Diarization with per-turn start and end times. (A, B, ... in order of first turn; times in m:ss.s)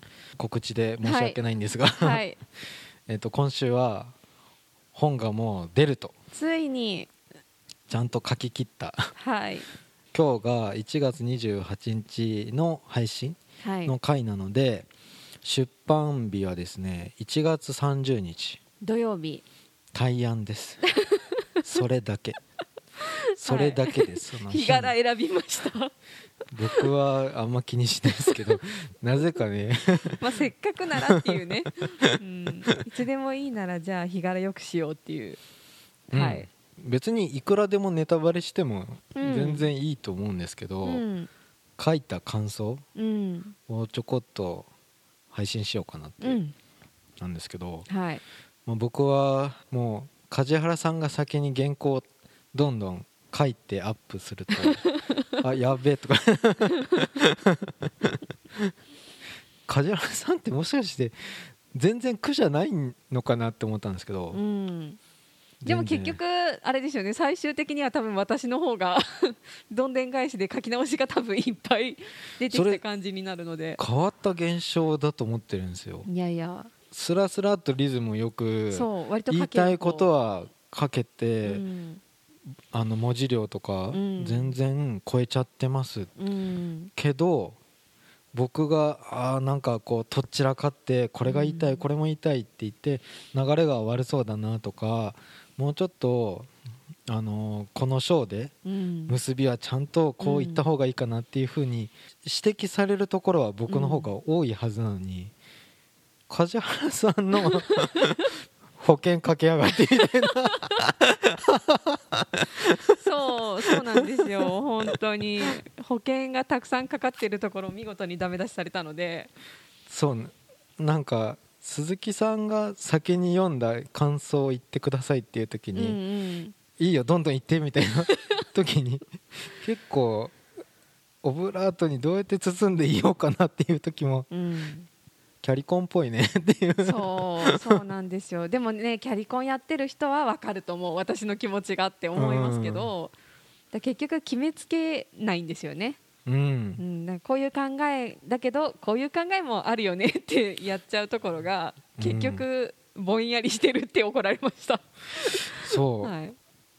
0:00.4-0:02.2 A
0:01.0-0:01.4 B
0:02.0-0:02.4 B
0:03.1-0:04.1 A
0:04.9-0:06.1 A
0:06.3-0:07.1 B
0:07.9-0:09.1 A
0:09.2-0:09.7 B
0:10.1-0:14.9 A
0:13.6-0:14.0 B
0:15.4-0:18.6 A
0:18.8-0:19.4 B
0:19.9-0:20.9 A
0:20.9-0:21.4 B
0:21.6-0:22.4 A
0:23.0-0:25.9 B
0:23.4-0:25.0 A
0:26.5-0:30.2 A
0:28.2-0:28.5 B
0:30.2-0:35.4 B
0:31.1-0:31.4 A
0:36.1-0:36.5 B
0:36.1-0:41.0 A
0:39.2-0:39.7 B
0:40.8-0:41.3 B
0:41.8-0:42.8 A
0:43.0-0:43.6 B
0:43.7-0:44.7 A
0:45.3-0:46.4 A
0:46.2-0:46.6 B
0:47.2-0:47.9 A
0:47.9-0:48.2 B
0:48.7-0:54.8 A
0:54.6-0:54.9 B
0:55.4-0:58.7 A
0:59.7-1:04.4 A
1:04.3-1:05.0 B
1:05.6-1:06.2 A
1:05.7-1:13.8 B
1:12.5-1:12.8 A
1:13.8-1:16.1 A
1:16.1-1:16.7 B
1:16.9-1:21.6 A
1:18.7-1:20.1 B
1:21.4-1:22.0 B
1:22.7-1:26.1 A
1:23.9-1:24.6 B
1:26.2-1:26.9 B
1:27.0-1:27.6 A
1:28.3-1:36.5 A
1:31.2-1:31.8 B
1:37.1-1:38.6 A
1:38.6-1:39.2 B
1:39.1-1:45.3 A
1:40.2-1:40.7 B
1:43.7-1:44.1 B
1:46.3-1:48.2 A
1:47.6-1:48.0 B
1:48.8-1:52.7 A
1:53.0-1:59.3 B
1:59.9-2:06.0 A
2:05.7-2:06.6 B
2:06.8-2:10.4 A
2:11.2-2:14.3 A
2:14.3-2:14.9 B
2:15.4-2:17.8 A
2:16.8-2:23.1 B
2:22.2-2:22.9 A
2:23.7-2:26.0 B
2:26.3-2:26.8 A
2:26.8-2:36.4 B
2:32.0-2:32.4 A
2:35.5-2:36.1 A